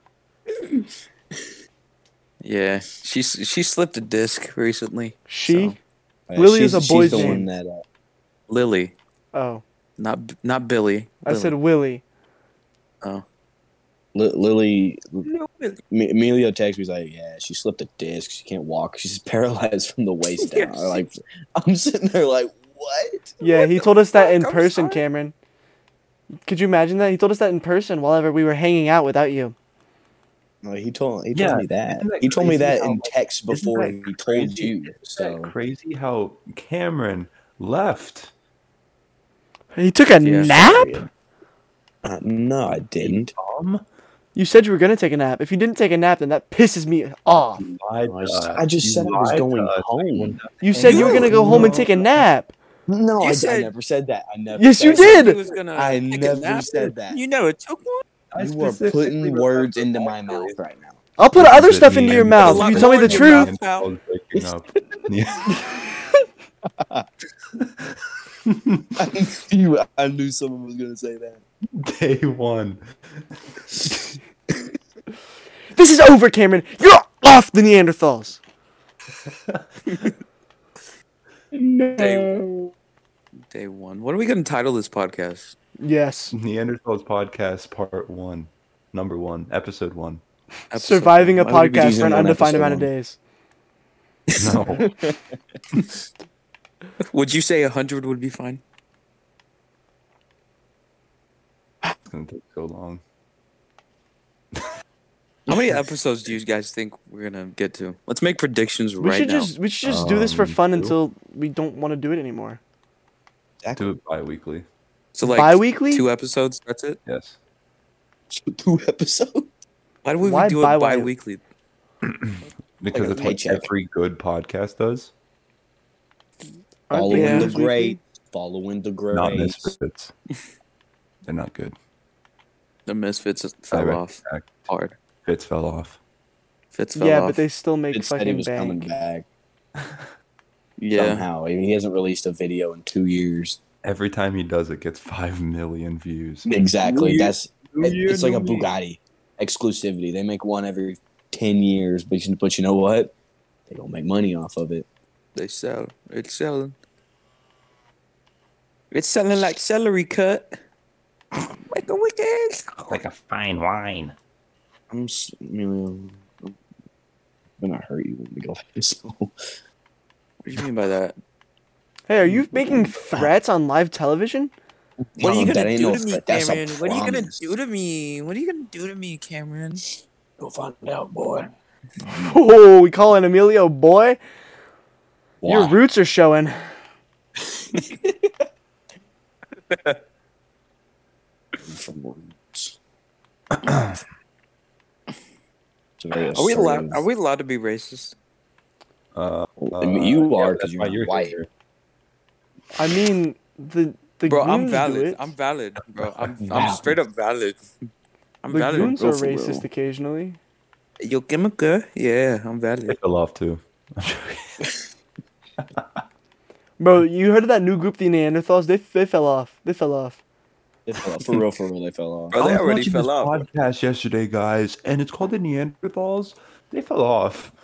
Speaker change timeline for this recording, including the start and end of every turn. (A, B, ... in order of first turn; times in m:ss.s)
0:02.4-0:05.8 A
0:05.3-0:05.8 B
0:06.3-0:07.8 C
0:06.4-0:07.5 B
0:07.0-0:07.4 A
0:08.5-0:09.0 A
0:09.3-0:09.6 B
0:10.0-0:11.6 A
0:11.2-0:12.0 B
0:14.1-0:15.3 C
0:15.2-0:15.8 A
0:15.9-0:23.4 C
0:20.4-0:21.0 A
0:23.4-0:25.3 B
0:23.5-0:25.0 A
0:26.4-0:29.6 B
0:30.6-0:35.5 C
0:31.3-0:38.3 D
0:39.8-0:41.1 B
0:40.2-0:40.8 A
0:40.4-0:41.1 C
0:42.0-0:43.3 C
0:43.0-0:43.8 D
0:44.4-0:47.6 B
0:47.6-0:52.1 D
0:48.1-0:50.4 C
0:50.6-0:52.5 B
0:50.8-0:51.4 A
0:51.0-0:51.9 C
0:52.9-0:57.2 C
0:53.2-0:53.7 A
0:54.6-0:55.4 B
0:54.9-0:58.0 A
0:58.3-1:00.1 D
0:58.4-1:01.0 C
0:59.6-1:00.5 A
1:01.2-1:03.5 B
1:01.4-1:05.5 D
1:02.4-1:03.9 A
1:04.4-1:05.0 C
1:06.8-1:07.1 C
1:07.6-1:09.1 D
1:09.0-1:11.4 C
1:11.8-1:13.4 D
1:13.7-1:14.1 C
1:15.8-1:18.4 B
1:19.2-1:19.7 D
1:21.5-1:22.7 C
1:22.0-1:22.4 A
1:23.5-1:25.6 A
1:25.8-1:26.3 B
1:26.3-1:30.2 D
1:30.7-1:32.3 A
1:30.8-1:33.2 B
1:31.5-1:32.9 C
1:34.3-1:35.2 C
1:34.4-1:34.9 D
1:37.1-1:38.6 A
1:42.1-1:43.0 D
1:45.5-1:45.8 C
1:45.5-1:49.5 A
1:49.0-1:52.6 B
1:49.8-1:51.0 D
1:53.6-1:53.9 C
1:53.8-1:54.7 D
1:55.2-1:57.0 A
1:55.2-1:56.1 B
1:57.1-1:57.4 D
1:58.3-1:59.5 C
2:00.0-2:01.4 A
2:00.2-2:01.1 B
2:02.0-2:05.1 D
2:02.9-2:03.7 C
2:06.9-2:08.0 B
2:06.9-2:09.8 C
2:07.1-2:07.5 A
2:09.1-2:10.1 D
2:11.2-2:11.8 D
2:12.9-2:15.0 A
2:13.7-2:14.6 D
2:15.3-2:16.0 D
2:16.8-2:17.4 A
2:17.0-2:18.9 B
2:17.9-2:19.3 C
2:19.8-2:20.1 D
2:20.8-2:21.2 A
2:20.9-2:23.6 C
2:23.8-2:28.7 D
2:26.5-2:33.1 C
2:33.7-2:34.9 C
2:35.4-2:36.8 A
2:38.9-2:40.5 A
2:41.4-2:43.0 A
2:42.9-2:44.2 D
2:44.9-2:46.5 C
2:47.6-2:49.3 C
2:50.4-2:51.2 A
2:52.1-2:54.5 B
2:52.3-2:53.3 C
2:55.2-2:57.4 C
2:55.2-2:59.8 A
3:00.4-3:01.5 C
3:02.1-3:02.3 C
3:02.1-3:04.2 B
3:05.4-3:05.8 C
3:05.4-3:06.6 B
3:07.5-3:08.3 C
3:09.7-3:10.0 A
3:11.6-3:12.8 C
3:13.6-3:14.0 D
3:16.0-3:17.0 C
3:16.3-3:18.2 A
3:19.1-3:21.5 D
3:19.6-3:21.4 C
3:22.8-3:25.3 B
3:24.3-3:27.6 A
3:26.0-3:26.3 D
3:26.4-3:27.0 C
3:28.4-3:29.0 A
3:28.5-3:30.4 B
3:28.8-3:29.7 C
3:31.0-3:33.0 A
3:32.9-3:34.6 D
3:35.6-3:36.0 D
3:36.8-3:40.2 B
3:40.9-3:42.4 C
3:42.3-3:43.4 A
3:42.4-3:47.5 D